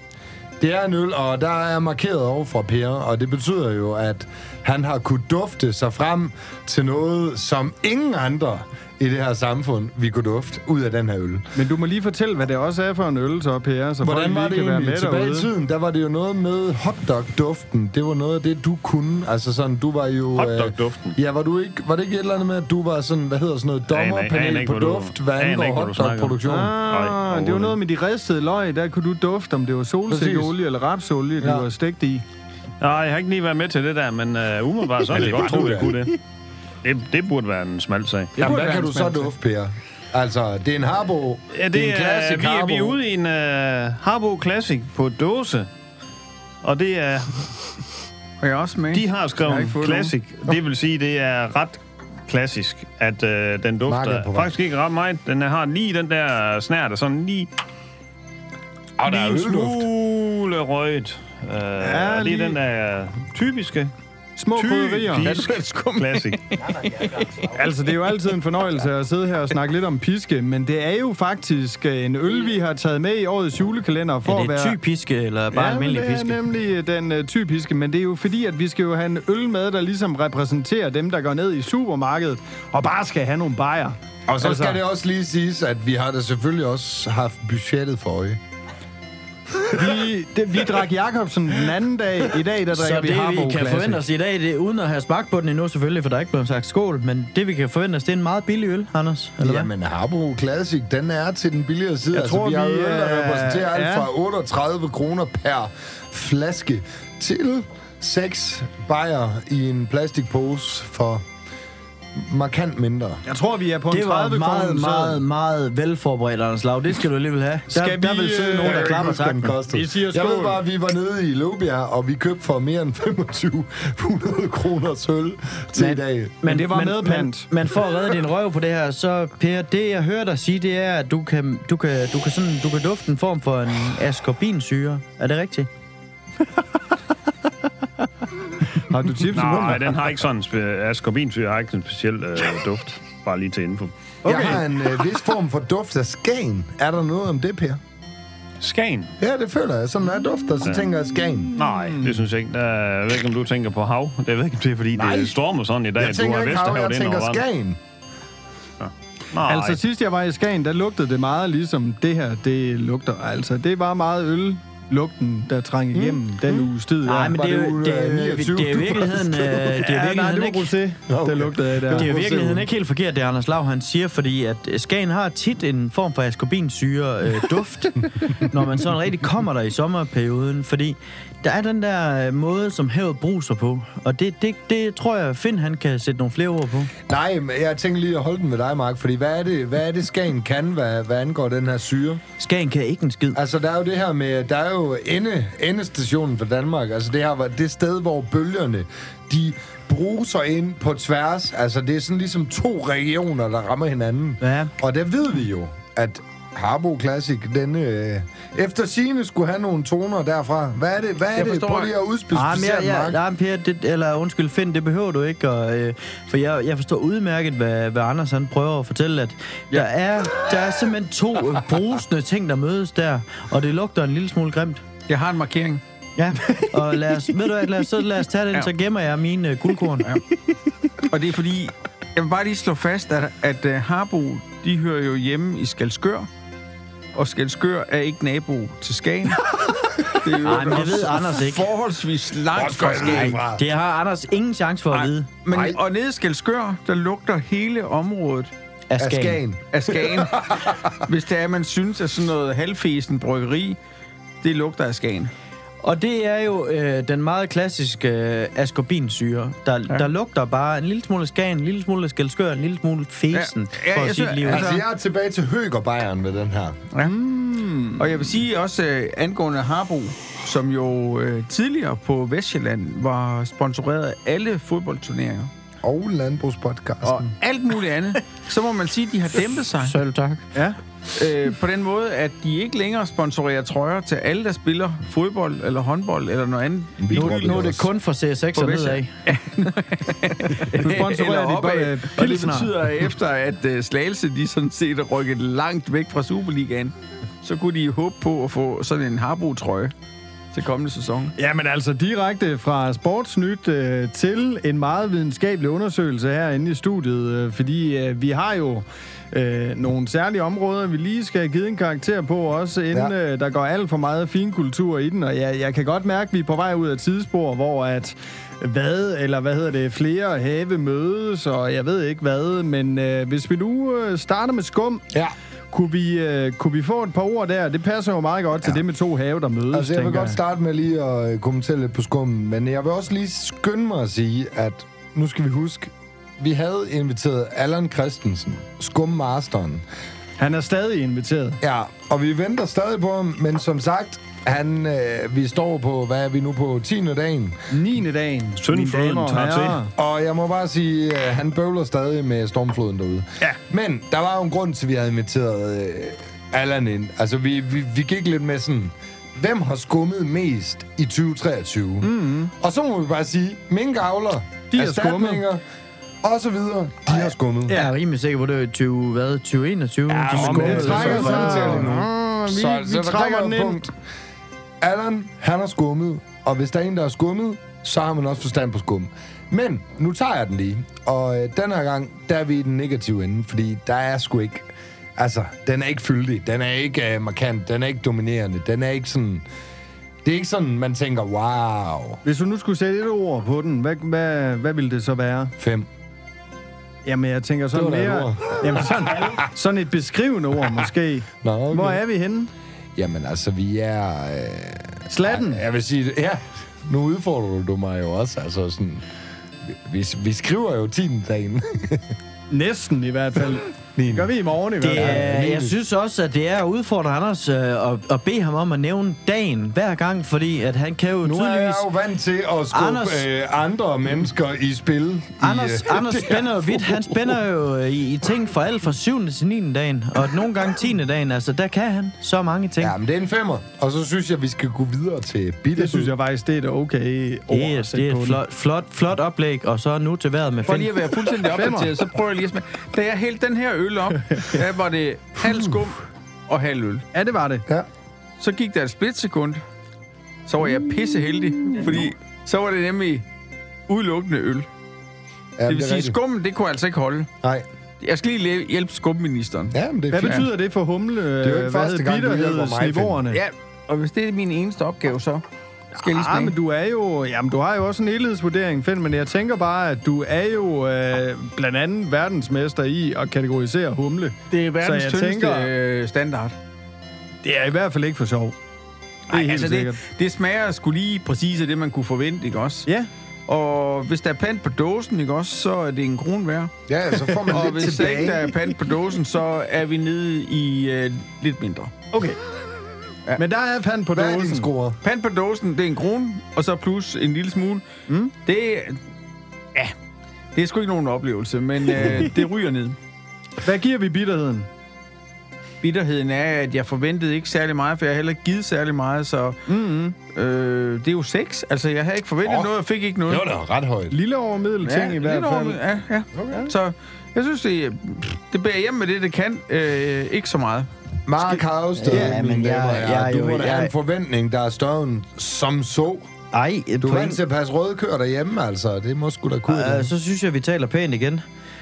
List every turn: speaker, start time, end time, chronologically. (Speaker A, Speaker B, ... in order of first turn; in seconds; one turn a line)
Speaker A: 0.6-11.4
Speaker B: 11.5-15.5
Speaker A: 14.0-26.7
Speaker C: 20.3-21.1
Speaker C: 23.9-27.8
Speaker B: 26.5-32.2
Speaker A: 30.1-30.5
Speaker A: 31.4-31.7
Speaker C: 32.8-36.1
Speaker A: 35.0-36.0
Speaker C: 36.8-38.7
Speaker B: 38.4-39.3
Speaker A: 38.4-43.0
Speaker C: 41.5-45.7
Speaker C: 46.6-47.5
Speaker D: 48.4-50.1
Speaker C: 48.9-57.5
Speaker A: 53.8-54.6
Speaker A: 59.0-59.9
Speaker C: 59.0-63.9
Speaker B: 61.8-62.6
Speaker B: 64.4-65.3
Speaker C: 64.5-66.4
Speaker D: 65.2-67.4
Speaker B: 67.5-74.8
Speaker E: 74.2-76.4
Speaker B: 75.5-84.8
Speaker A: 84.3-88.4
Speaker B: 89.7-94.0
Speaker E: 92.7-99.7
Speaker A: 99.4-111.2
Speaker B: 102.1-104.1
Speaker A: 112.1-113.2
Speaker B: 113.2-115.2
Speaker E: 113.9-119.5
Speaker B: 117.7-119.0
Speaker A: 118.6-126.4
Speaker B: 119.7-120.6
Speaker E: 125.7-135.7
Speaker B: 126.4-127.5
Speaker B: 138.6-140.0
Speaker C: 139.3-143.9
Speaker B: 144.2-144.6
Speaker A: 144.2-147.8
Speaker C: 148.6-149.1
Speaker A: 149.2-151.6
Speaker C: 150.6-150.9
Speaker B: 151.5-152.2
Speaker C: 151.6-157.4
Speaker A: 154.9-155.4
Speaker A: 155.9-157.8
Speaker C: 158.8-159.8
Speaker B: 159.4-167.3
Speaker A: 165.9-166.7
Speaker E: 167.0-170.7
Speaker A: 167.3-169.8
Speaker B: 169.7-172.6
Speaker A: 171.1-172.6
Speaker E: 171.9-186.9
Speaker A: 187.1-192.2
Speaker E: 192.4-193.4
Speaker A: 193.3-213.2
Speaker E: 204.4-204.7
Speaker D: 211.3-211.9
Speaker E: 212.3-224.8
Speaker D: 225.1-225.8
Speaker E: 226.2-230.1
Speaker D: 231.1-236.3
Speaker D: 237.1-239.4
Speaker D: 240.0-243.4
Speaker E: 240.4-241.7
Speaker A: 242.5-243.6
Speaker E: 243.1-245.3
Speaker D: 244.9-248.5
Speaker A: 245.5-245.8
Speaker E: 248.9-249.4
Speaker A: 249.0-250.9
Speaker D: 249.7-253.8
Speaker D: 254.4-255.3
Speaker E: 255.8-264.8
Speaker D: 263.3-264.8
Speaker A: 264.4-266.8
Speaker B: 267.0-268.1
Speaker D: 268.0-275.5
Speaker A: 275.8-277.3
Speaker D: 277.0-279.9
Speaker E: 279.8-280.4
Speaker D: 281.1-287.6
Speaker A: 287.0-287.9
Speaker E: 287.1-289.1
Speaker D: 288.6-299.9
Speaker B: 290.7-292.8
Speaker D: 300.5-301.3
Speaker B: 301.4-325.0
Speaker B: 325.7-330.4
Speaker A: 329.7-339.8
Speaker B: 340.4-341.6
Speaker A: 341.6-347.6
Speaker B: 347.7-349.9
Speaker C: 348.6-349.8
Speaker A: 349.9-365.6
Speaker B: 362.0-362.5
Speaker B: 364.7-365.4
Speaker A: 366.2-367.8
Speaker B: 367.7-367.9
Speaker E: 367.7-371.9
Speaker A: 370.1-373.9
Speaker B: 370.3-373.8
Speaker A: 374.8-389.4
Speaker A: 390.2-392.2
Speaker B: 392.2-395.5
Speaker A: 395.6-395.9
Speaker B: 397.0-402.5
Speaker A: 397.7-399.0
Speaker A: 401.4-402.0
Speaker A: 402.9-409.0
Speaker B: 405.1-405.6
Speaker A: 409.7-412.1
Speaker B: 412.5-415.3
Speaker A: 413.8-414.3
Speaker E: 414.8-421.9
Speaker A: 414.9-415.8
Speaker A: 421.2-427.4
Speaker E: 422.7-423.2
Speaker E: 425.4-432.9
Speaker A: 432.8-436.1
Speaker B: 435.7-438.4
Speaker E: 437.5-440.9
Speaker D: 440.6-447.0
Speaker B: 441.3-441.9
Speaker B: 447.1-447.6
Speaker D: 448.4-449.6
Speaker D: 450.4-453.2
Speaker D: 453.9-454.7
Speaker A: 455.6-456.2
Speaker D: 455.7-457.3
Speaker D: 458.0-460.5
Speaker A: 459.7-460.4
Speaker B: 460.1-463.4
Speaker A: 461.4-463.2
Speaker D: 463.3-465.4
Speaker D: 465.9-466.6
Speaker B: 466.0-475.7
Speaker D: 474.5-476.6
Speaker B: 477.4-478.6
Speaker B: 479.3-480.0
Speaker D: 479.3-482.9
Speaker D: 483.5-486.7
Speaker A: 486.9-488.5
Speaker D: 487.5-491.9
Speaker B: 492.1-492.4
Speaker B: 493.4-494.7
Speaker A: 494.1-495.0
Speaker D: 495.0-497.8
Speaker B: 498.1-498.3
Speaker D: 498.4-499.0
Speaker D: 500.5-503.0
Speaker B: 501.9-502.4
Speaker B: 503.6-504.7
Speaker D: 505.8-509.6
Speaker B: 509.7-510.1
Speaker D: 510.2-513.5
Speaker A: 512.4-512.7
Speaker A: 513.2-514.2
Speaker B: 514.1-515.8
Speaker D: 514.8-520.9
Speaker A: 521.2-526.3
Speaker E: 522.0-523.9
Speaker B: 522.1-522.4
Speaker E: 526.5-527.4
Speaker A: 527.0-530.1
Speaker E: 529.7-531.4